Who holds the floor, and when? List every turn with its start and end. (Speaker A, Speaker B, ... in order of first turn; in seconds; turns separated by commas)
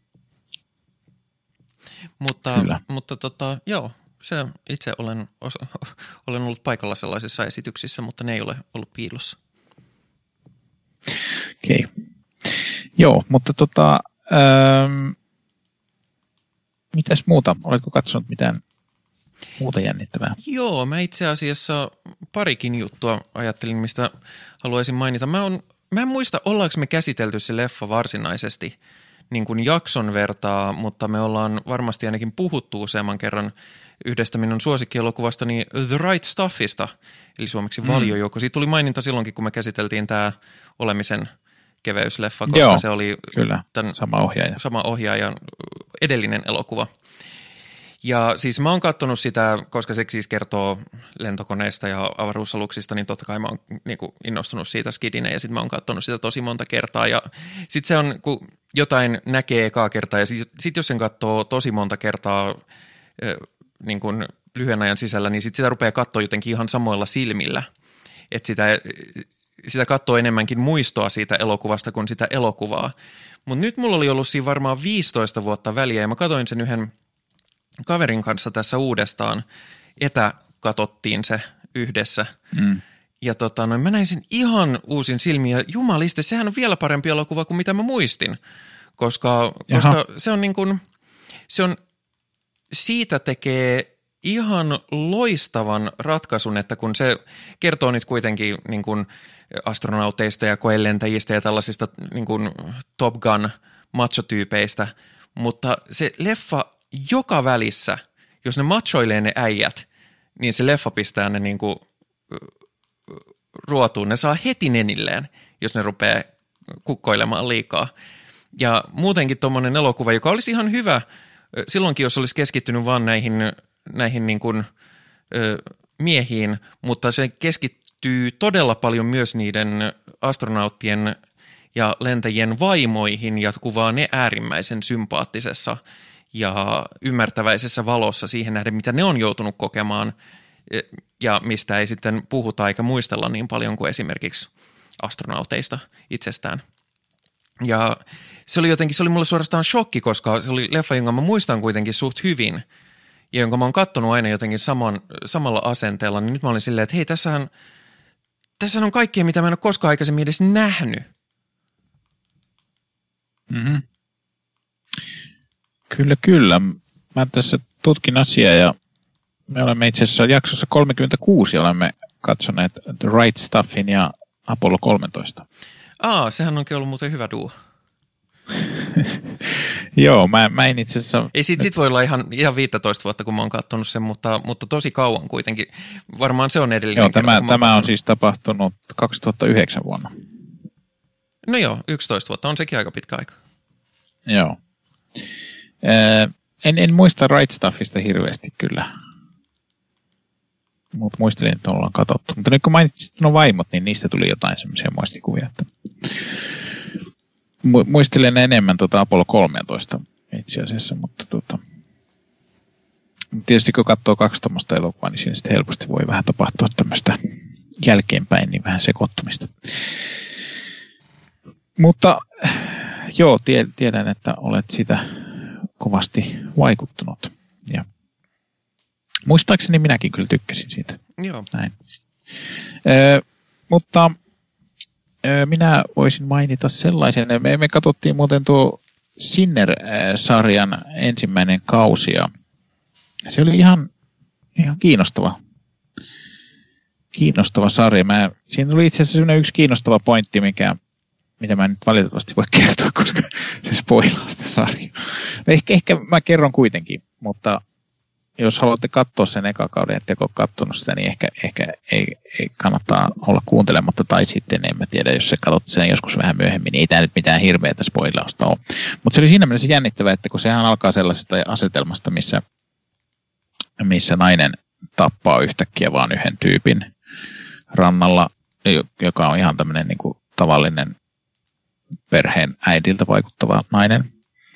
Speaker A: 2.2-9.4, Speaker B: 11.6-11.9, Speaker B: 12.4-15.2, Speaker B: 16.9-18.6, Speaker B: 19.6-20.4, Speaker A: 20.4-28.7, Speaker A: 29.3-41.3, Speaker B: 37.8-38.1, Speaker A: 41.8-44.0, Speaker B: 42.5-44.6, Speaker A: 44.6-46.9, Speaker A: 48.0-62.6, Speaker A: 63.2-67.7, Speaker A: 68.3-72.9, Speaker A: 73.5-76.9, Speaker A: 77.8-79.4, Speaker A: 80.0-82.3, Speaker B: 82.5-82.8, Speaker A: 83.2-88.4, Speaker A: 89.0-90.8, Speaker B: 89.7-90.0, Speaker A: 91.5-91.8, Speaker A: 92.7-109.8, Speaker A: 110.4-112.5, Speaker A: 113.1-116.3, Speaker A: 116.8-117.9, Speaker A: 118.5-124.7, Speaker A: 125.3-131.2, Speaker A: 131.7-135.8, Speaker A: 136.3-140.1, Speaker A: 140.7-146.6, Speaker A: 147.6-152.6, Speaker A: 153.3-157.5, Speaker A: 158.6-161.1, Speaker B: 163.5-163.8, Speaker B: 165.9-168.7, Speaker B: 169.5-175.4, Speaker A: 176.0-177.5, Speaker B: 178.9-181.3, Speaker A: 181.3-187.9, Speaker B: 186.9-190.1, Speaker A: 191.4-193.4, Speaker B: 194.3-194.6, Speaker B: 195.8-198.9, Speaker B: 200.9-206.2, Speaker B: 207.6-211.6, Speaker B: 213.3-217.2, Speaker B: 217.8-219.5, Speaker B: 221.8-227.8, Speaker B: 229.3-231.0, Speaker A: 231.2-231.5, Speaker B: 232.8-234.2, Speaker B: 235.2-242.3, Speaker B: 243.2-243.9, Speaker B: 244.6-245.4, Speaker B: 247.1-250.8, Speaker B: 251.4-257.6, Speaker B: 258.4-272.4, Speaker B: 273.8-276.9, Speaker B: 277.7-280.9, Speaker B: 282.1-284.1